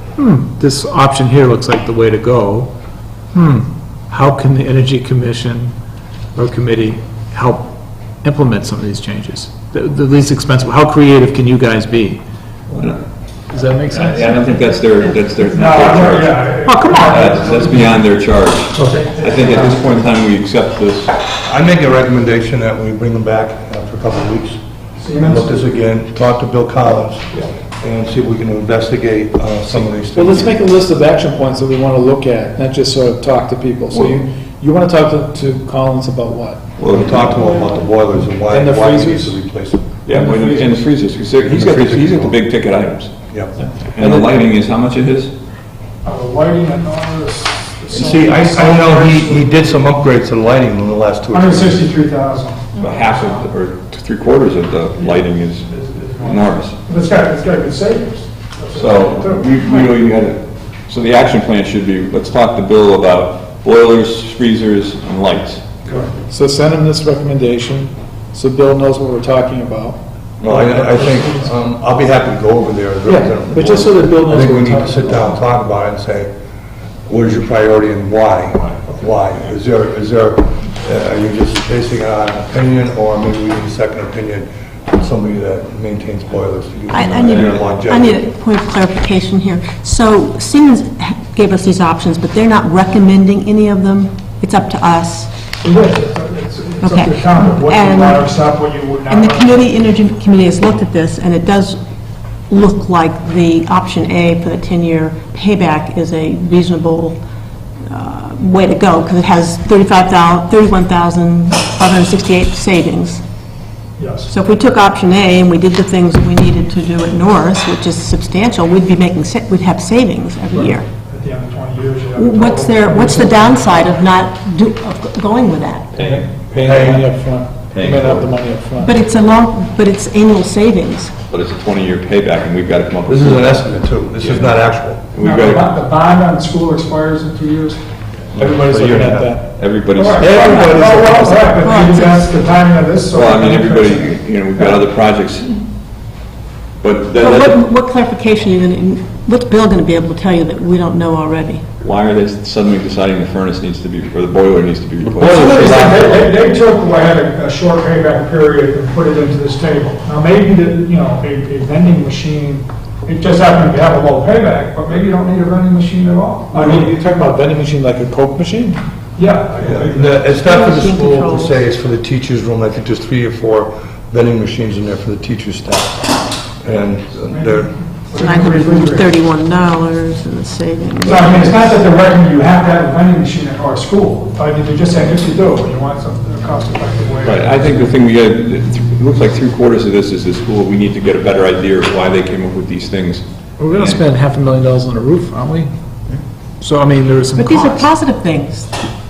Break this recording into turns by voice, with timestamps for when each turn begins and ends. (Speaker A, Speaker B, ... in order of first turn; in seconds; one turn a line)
Speaker A: 0.2-2.7
Speaker A: 3.3-5.7
Speaker A: 6.3-12.2
Speaker B: 12.7-13.0
Speaker A: 13.5-14.4
Speaker B: 13.9-16.5
Speaker C: 15.5-18.0
Speaker A: 16.6-17.6
Speaker B: 17.1-21.1
Speaker C: 18.8-20.0
Speaker D: 21.4-24.6
Speaker C: 25.0-25.6
Speaker D: 25.2-30.6
Speaker A: 30.1-36.6
Speaker B: 36.8-37.4
Speaker D: 36.9-39.9
Speaker A: 38.5-39.4
Speaker B: 40.1-43.1
Speaker A: 40.1-40.8
Speaker D: 41.4-42.4
Speaker D: 43.3-43.5
Speaker B: 43.9-45.3
Speaker A: 44.0-44.4
Speaker C: 46.0-49.6
Speaker D: 47.9-51.8
Speaker C: 51.3-53.4
Speaker B: 52.8-56.8
Speaker C: 55.0-59.8
Speaker B: 58.8-65.8
Speaker A: 66.2-71.0
Speaker D: 70.4-76.3
Speaker C: 70.9-71.4
Speaker A: 73.1-75.4
Speaker D: 77.1-88.3
Speaker C: 78.7-79.0
Speaker E: 86.9-95.3
Speaker B: 87.1-87.7
Speaker C: 95.6-99.6
Speaker E: 96.8-98.3
Speaker E: 99.1-101.8
Speaker E: 102.5-107.2
Speaker E: 107.9-113.2
Speaker C: 114.0-114.3
Speaker E: 114.3-120.9
Speaker C: 120.5-123.6
Speaker E: 122.2-125.9
Speaker B: 126.0-126.5
Speaker A: 126.0-129.0
Speaker D: 126.6-127.1
Speaker B: 127.7-128.3
Speaker E: 128.8-131.1
Speaker B: 131.3-134.6
Speaker D: 133.1-135.1
Speaker B: 135.1-135.7
Speaker C: 135.2-137.8
Speaker D: 138.3-139.4
Speaker A: 138.4-139.5
Speaker B: 139.6-140.8
Speaker C: 139.9-144.8
Speaker D: 140.2-141.5
Speaker E: 140.3-142.3
Speaker B: 143.1-145.6
Speaker B: 146.8-147.7
Speaker E: 147.2-151.6
Speaker B: 151.8-155.5
Speaker D: 155.0-156.3
Speaker C: 155.2-167.0
Speaker A: 166.5-168.8
Speaker C: 169.2-170.3
Speaker D: 169.6-177.7
Speaker E: 170.4-171.5
Speaker C: 177.3-179.1
Speaker E: 178.2-181.5
Speaker C: 181.0-187.9
Speaker B: 187.2-194.0
Speaker A: 193.6-195.7
Speaker A: 196.6-197.9
Speaker E: 197.3-198.7